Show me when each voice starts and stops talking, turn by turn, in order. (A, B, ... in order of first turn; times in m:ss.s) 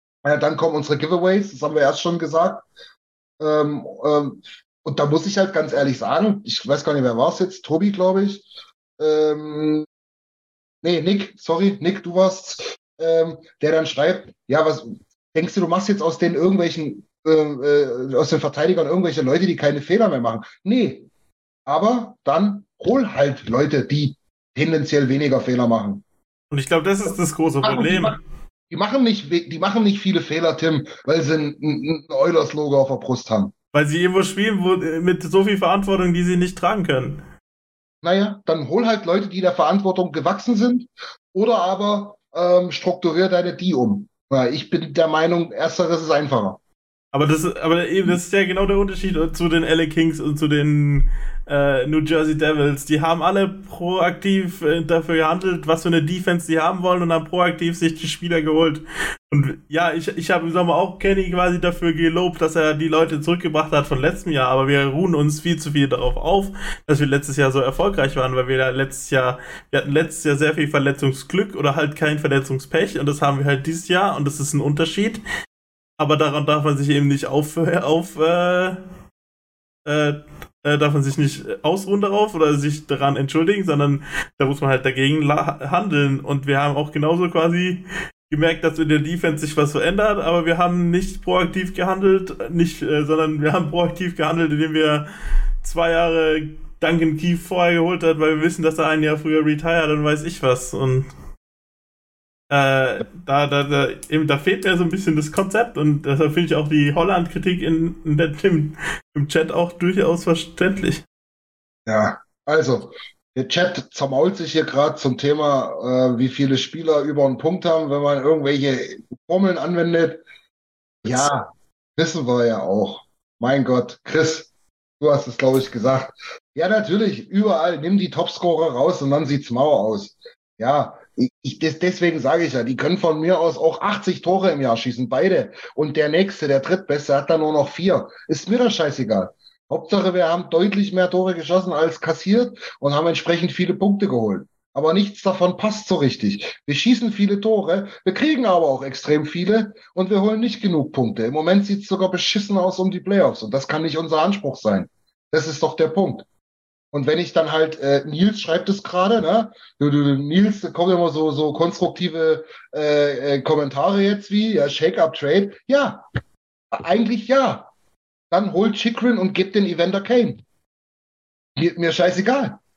0:00.2-0:02.6 A
0:03.4-0:08.4 A
0:09.0-0:09.8 A
0:10.8-0:21.1 A
0:21.6-0:26.0 A
0:26.5-0:28.2 B
0:27.6-0:28.2 A
0:28.7-0:33.5 A
0:33.7-0:37.2 B
0:38.0-0:46.6 A
0:47.1-1:15.2 B
1:16.0-1:18.8 B
1:19.8-1:35.0 B
1:35.6-1:41.1 B
1:42.5-1:51.0 B
1:51.8-2:00.2 A
2:01.0-2:04.5 A
2:05.0-2:36.2 A
2:36.9-2:46.0 A
2:46.7-2:47.7 A
2:48.3-2:50.4 A
2:51.6-2:52.6 A